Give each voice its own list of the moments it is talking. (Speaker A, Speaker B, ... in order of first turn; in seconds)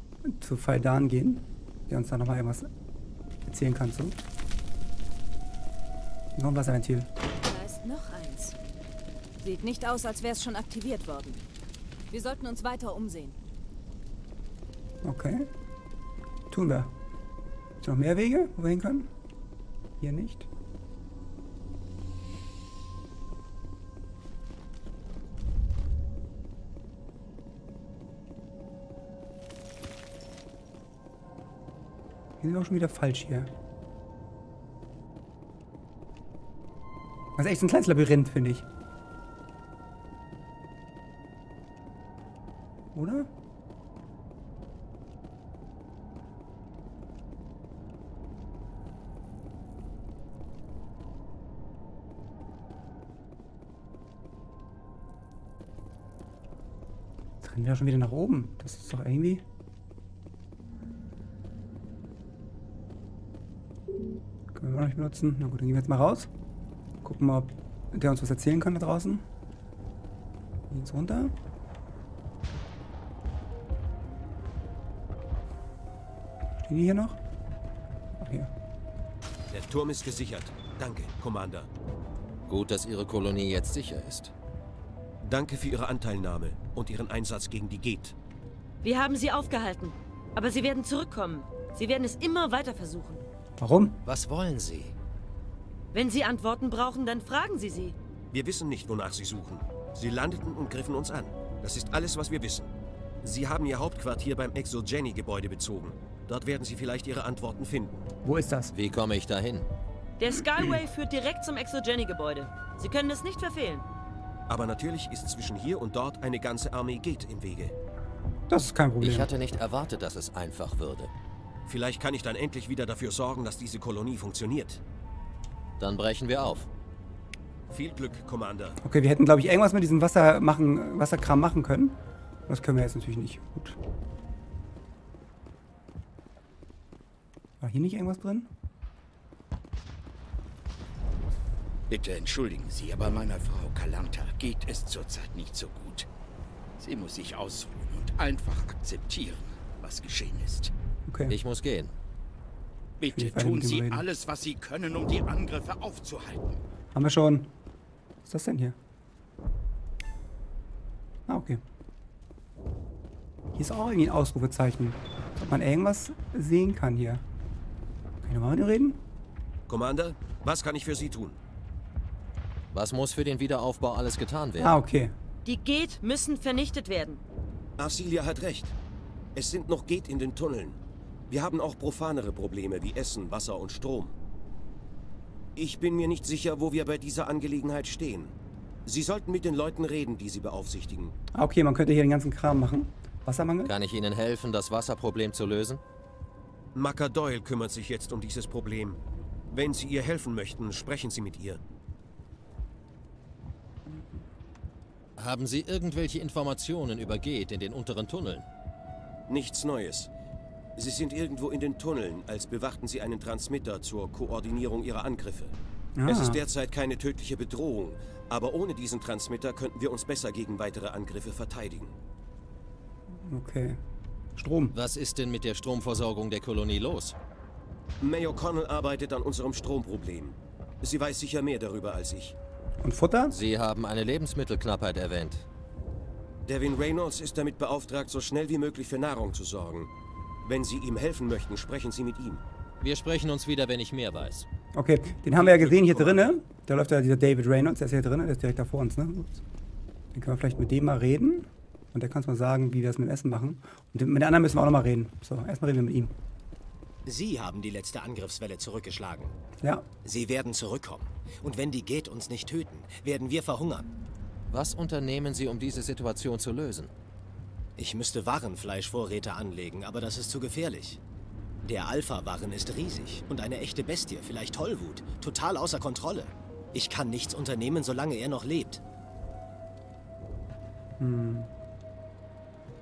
Speaker A: 0.2-2.7, 3.5-4.2, 6.3-7.1, 15.0-15.5, 16.5-16.9, 17.8-19.1, 20.0-20.5, 32.4-33.5, 37.4-38.6, 42.9-43.3, 57.4-59.4, 64.5-66.3, 67.0-69.2, 70.7-71.3, 76.7-77.2, 78.2-78.5, 93.6-94.0, 108.2-108.7, 118.5-119.3, 128.8-133.8, 137.6-138.5, 151.1-151.3, 153.1-154.0, 156.9-157.5, 158.2-158.7, 161.3-161.6, 163.6-167.2, 168.2-169.0, 174.6-175.1, 191.3-193.7, 215.9-216.4, 223.3-223.8, 224.4-224.7, 232.8-233.3, 244.7-249.4, 250.1-256.1, 281.0-281.5
Speaker B: 7.4-8.6, 9.4-11.4, 12.1-13.4
Speaker C: 79.5-81.7, 85.2-88.2, 98.3-102.7, 103.2-108.0, 114.5-117.7, 121.7-124.8, 127.7-128.8, 169.7-171.4, 177.8-178.7, 179.3-184.1, 185.6-188.3, 188.8-191.2, 196.7-199.0, 199.5-201.6, 209.3-210.1, 210.8-215.5, 216.1-221.9, 228.0-232.3, 236.4-239.9, 240.4-242.4
Speaker D: 82.5-84.3, 94.0-94.9, 108.7-109.7, 119.0-121.1, 125.8-126.7, 151.3-151.9, 172.7-174.7, 193.6-195.8, 205.2-208.4, 224.7-227.2, 233.3-235.4, 242.8-244.5, 245.4-246.3, 264.5-266.9
Speaker E: 88.8-93.2, 95.9-97.9, 110.2-113.8, 175.4-177.2
Speaker F: 141.9-146.1, 146.8-150.7, 153.0-156.6
Speaker G: 257.1-259.3, 260.0-263.9, 267.8-271.0, 271.6-278.8